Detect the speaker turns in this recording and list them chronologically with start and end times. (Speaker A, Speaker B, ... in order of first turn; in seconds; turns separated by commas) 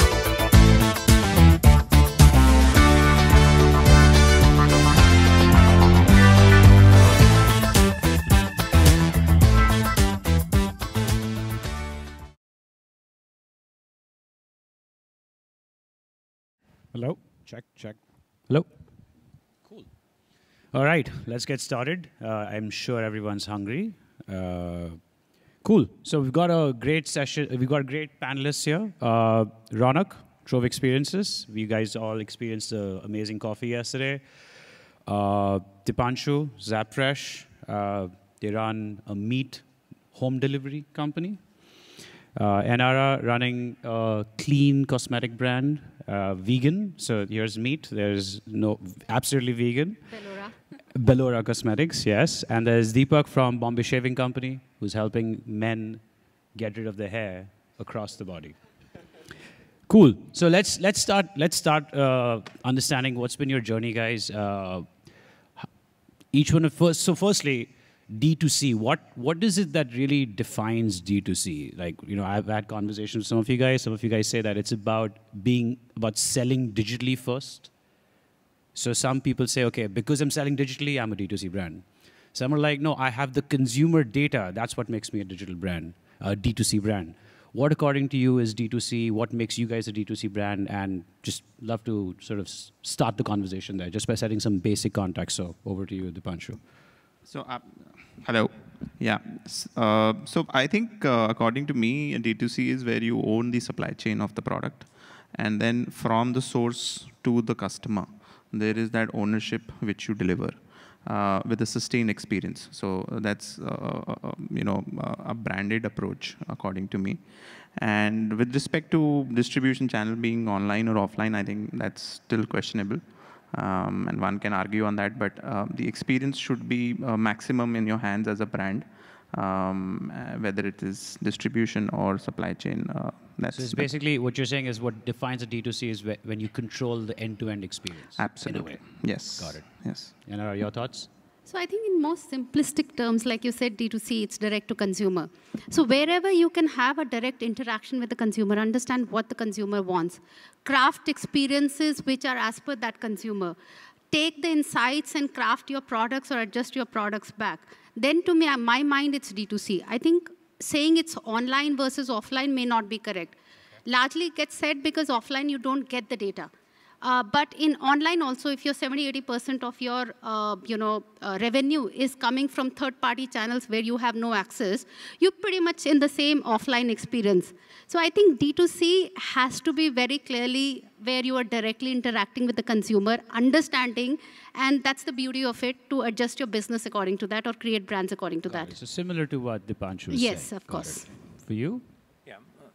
Speaker A: 16.9-18.7, Speaker A: 20.7-25.0, Speaker A: 25.6-34.2, Speaker A: 35.1-50.1, Speaker B: 50.1-50.6, Speaker A: 50.9-58.6, Speaker A: 59.9-65.0, Speaker A: 66.3-77.7, Speaker A: 78.8-96.6, Speaker C: 97.3-117.2, Speaker C: 117.8-133.9, Speaker A: 133.5-141.1, Speaker C: 138.2-140.1, Speaker B: 141.5-153.6, Speaker B: 154.1-166.5, Speaker B: 167.0-188.8, Speaker A: 188.5-191.8, Speaker B: 190.1-191.1